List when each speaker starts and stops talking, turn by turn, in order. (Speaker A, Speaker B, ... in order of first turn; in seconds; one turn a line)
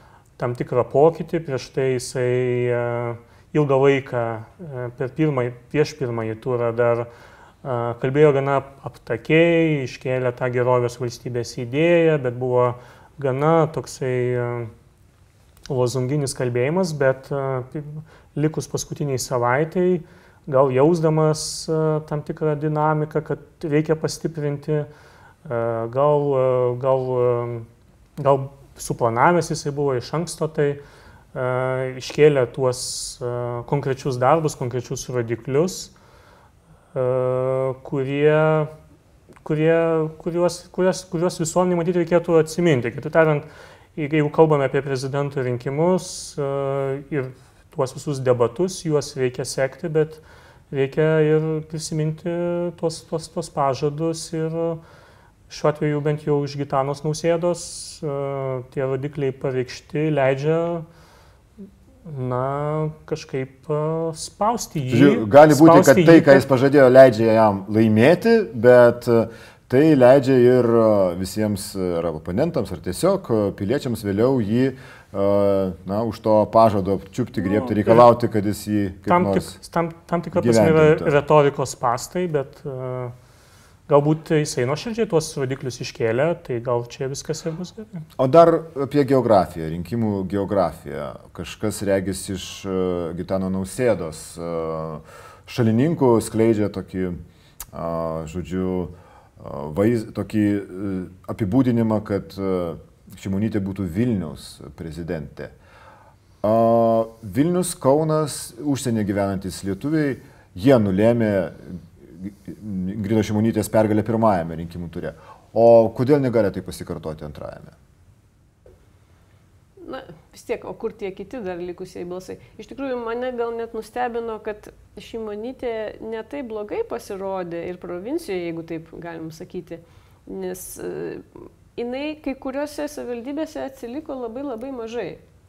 Speaker A: 0.4-7.1
Speaker A: 7.6-14.7
Speaker A: 15.7-24.9
Speaker A: 25.4-27.7
Speaker A: 28.2-30.8
Speaker A: 31.3-35.9
Speaker A: 36.9-38.7
Speaker A: 39.4-54.8
Speaker A: 55.5-60.9
Speaker A: 62.0-66.4
Speaker B: 64.9-79.6
Speaker A: 77.4-78.0
Speaker A: 79.1-83.1
Speaker B: 80.3-81.1
Speaker A: 83.9-88.0
Speaker B: 88.2-97.2
Speaker B: 97.7-105.5
Speaker B: 106.4-117.7
Speaker C: 119.8-135.2